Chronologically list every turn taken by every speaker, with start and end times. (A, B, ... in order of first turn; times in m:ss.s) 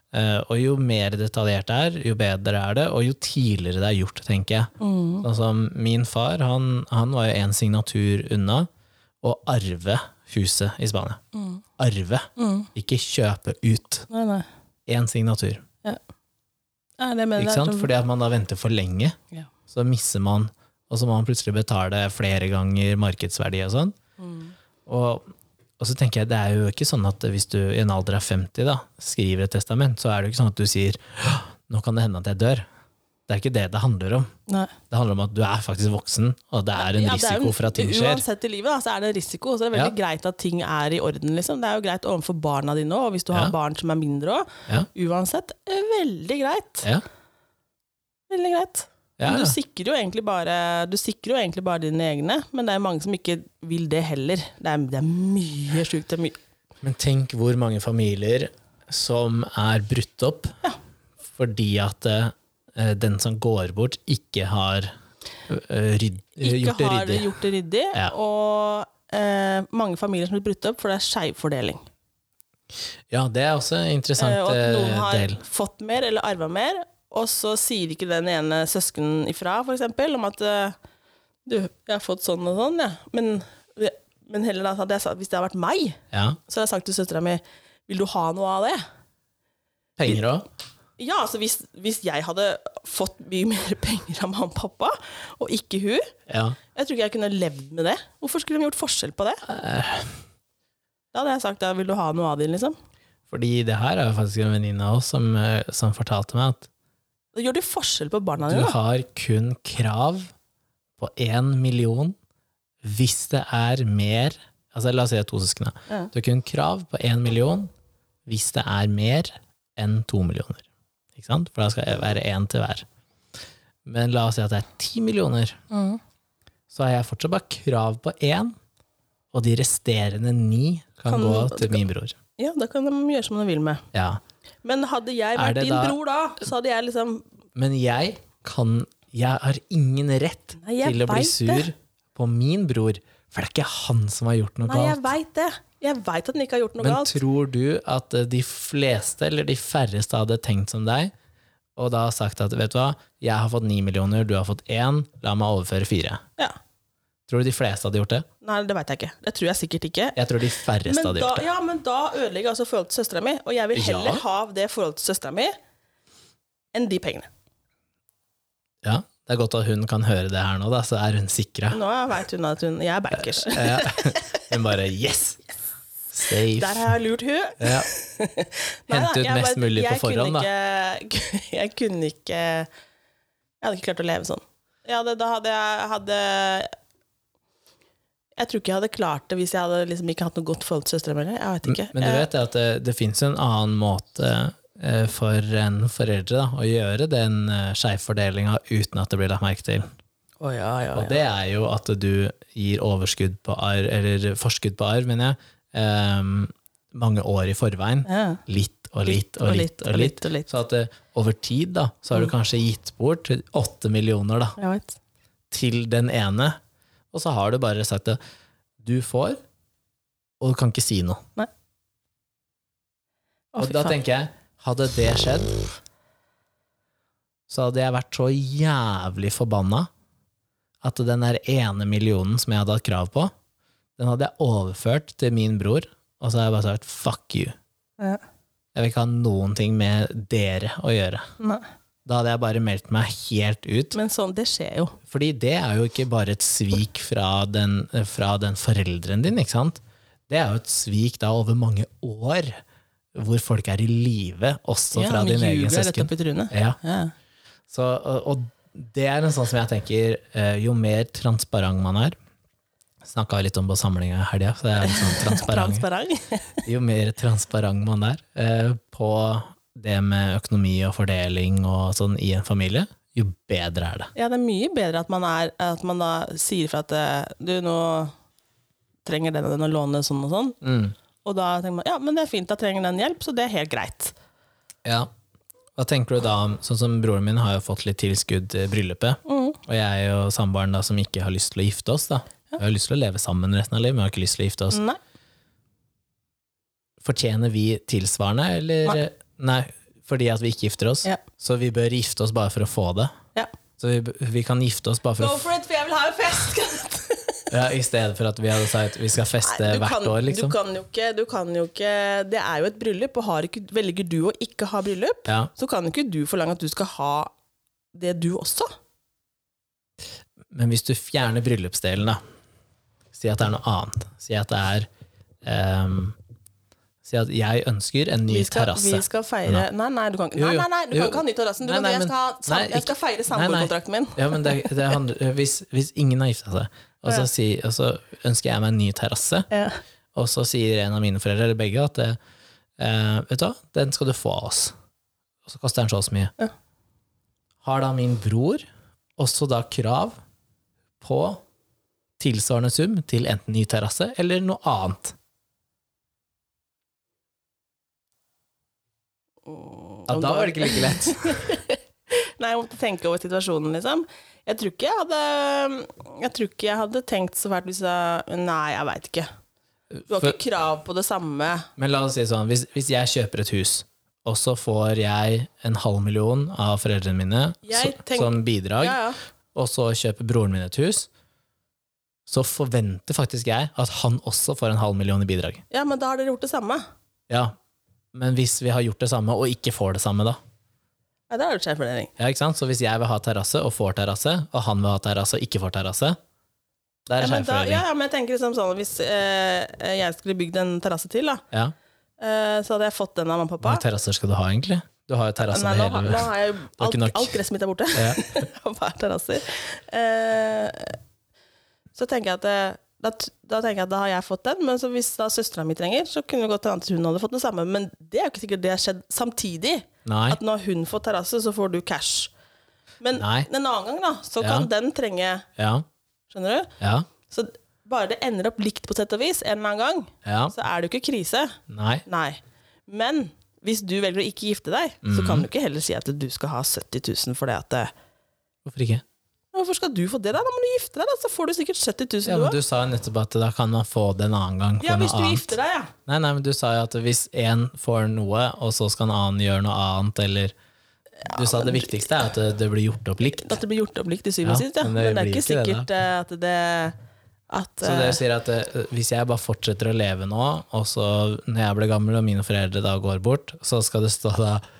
0:00.1-0:08.7 A
0:04.8-0:05.2 B
0:09.2-0:11.2 A
0:11.3-0:11.6 B
0:11.8-0:14.0 A
0:12.4-0:12.7 B
0:14.1-0:14.4 B
0:14.9-0:15.6 A
0:17.0-0:17.9 B
0:17.4-0:24.0 A
0:24.2-0:24.5 B
0:24.8-0:25.2 A
0:25.8-0:32.6 A
0:33.3-0:34.3 A
0:34.5-0:34.7 B
0:34.9-0:38.2 A
0:36.8-0:46.9 B
0:48.3-0:56.4 B
0:49.2-0:49.6 A
0:56.8-1:00.6 A
1:01.3-1:04.9 A
1:05.5-1:07.3 A
1:06.4-1:11.8 B
1:13.1-1:15.4 A
1:14.2-1:20.8 B
1:21.4-1:28.8 B
1:26.1-1:26.4 A
1:30.0-1:30.5 A
1:31.0-1:36.1 B
1:36.3-1:36.6 A
1:36.7-1:39.4 B
1:39.4-1:40.2 A
1:41.1-1:42.8 B
1:43.3-1:46.7 A
1:47.3-1:48.8 B
1:48.5-1:50.3 A
1:51.0-1:52.2 A
1:52.8-1:57.7 A
1:58.2-2:00.6 A
2:01.2-2:02.8 A
2:03.8-2:05.6 A
2:05.7-2:06.0 B
2:06.7-2:08.5 A
2:09.3-2:12.2 A
2:11.1-2:11.8 B
2:12.4-2:13.8 B
2:13.9-2:14.2 A
2:14.6-2:17.2 B
2:15.4-2:16.0 A
2:17.5-2:25.1 A
2:20.6-2:21.7 B
2:24.6-2:27.2 B
2:26.8-2:31.1 A
2:31.8-2:36.2 A
2:37.3-2:38.2 A
2:38.4-2:40.2 B
2:40.2-2:41.5 A
2:40.8-2:45.5 B
2:43.7-2:44.2 A
2:46.7-2:47.3 B
2:48.8-2:51.8 A
2:51.7-2:54.4 B
2:53.3-2:55.4 A
2:56.1-2:56.9 A
2:56.5-3:02.7 B
2:57.6-2:57.9 A
2:58.9-3:00.5 A
3:03.6-3:06.7 B
3:08.4-3:12.3 B
3:11.6-3:19.9 A
3:20.4-3:21.2 B
3:20.9-3:34.6 A
3:28.0-3:28.4 B
3:29.0-3:30.5 B
3:34.6-3:35.0 B
3:35.5-3:36.6 A
3:37.1-3:38.2 A
3:38.8-3:39.4 A
3:40.4-3:41.2 A
3:43.5-3:44.0 B
3:43.6-3:45.7 A
3:47.5-3:49.9 A
3:50.8-3:53.3 A
3:54.0-3:57.5 A
3:58.7-4:01.3 A
4:01.4-4:01.6 B
4:02.0-4:04.0 A
4:03.9-4:05.0 B
4:05.1-4:12.6 A
4:13.1-4:16.8 A
4:14.9-4:17.1 B
4:17.7-4:22.1 A
4:23.0-4:25.8 A
4:24.8-4:26.6 B
4:26.6-4:34.1 A
4:34.1-4:38.1 B
4:39.0-4:40.6 B
4:40.6-4:40.9 A
4:41.2-4:44.1 B
4:44.8-4:45.1 A
4:45.8-4:54.8 A
4:49.2-4:49.6 B
4:54.7-4:55.0 B
4:57.0-5:03.1 A
5:03.8-5:05.5 A
5:05.2-5:07.5 B
5:07.5-5:10.6 A
5:09.4-5:17.3 B
5:17.9-5:18.7 B
5:20.5-5:22.2 A
5:23.1-5:24.9 A
5:25.4-5:26.2 A
5:27.0-5:29.6 A
5:28.3-5:35.0 B
5:30.4-5:39.5 A
5:39.5-5:39.8 B
5:40.1-5:42.2 A
5:42.8-5:44.7 A
5:45.4-5:46.3 A
5:47.6-5:48.6 A
5:49.2-5:50.2 A
5:51.0-5:51.4 A
5:52.2-5:55.2 A
5:59.4-6:09.3 B
6:00.1-6:01.5 A
6:09.9-6:10.4 A
6:10.1-6:11.7 B
6:11.8-6:19.0 A
6:17.6-6:19.2 B
6:19.5-6:21.1 A
6:22.3-6:25.6 A
6:25.7-6:26.8 B
6:27.3-6:27.5 A
6:28.1-6:30.4 A
6:31.3-6:32.1 B
6:32.2-6:36.2 A
6:37.1-6:37.8 A
6:37.2-6:41.4 B
6:42.2-6:43.8 B
6:43.6-6:47.4 A
6:45.4-6:51.0 B
6:47.9-6:48.3 A
6:51.9-7:02.3 B
7:00.0-7:00.4 A
7:03.0-7:05.5 B
7:03.2-7:03.5 A
7:04.4-7:04.7 A
7:05.6-7:05.8 A
7:06.3-7:06.7 B
7:06.8-7:07.1 A
7:07.3-7:17.9 B
7:10.2-7:10.5 A
7:11.7-7:12.0 A
7:15.0-7:15.5 A
7:18.6-7:19.0 A
7:19.5-7:22.6 B
7:22.2-7:30.5 A
7:24.8-7:25.9 B
7:31.2-7:32.2 B
7:31.3-7:33.6 A
7:33.3-7:37.0 B
7:34.4-7:35.9 A
7:37.5-7:38.2 B
7:37.8-7:44.6 A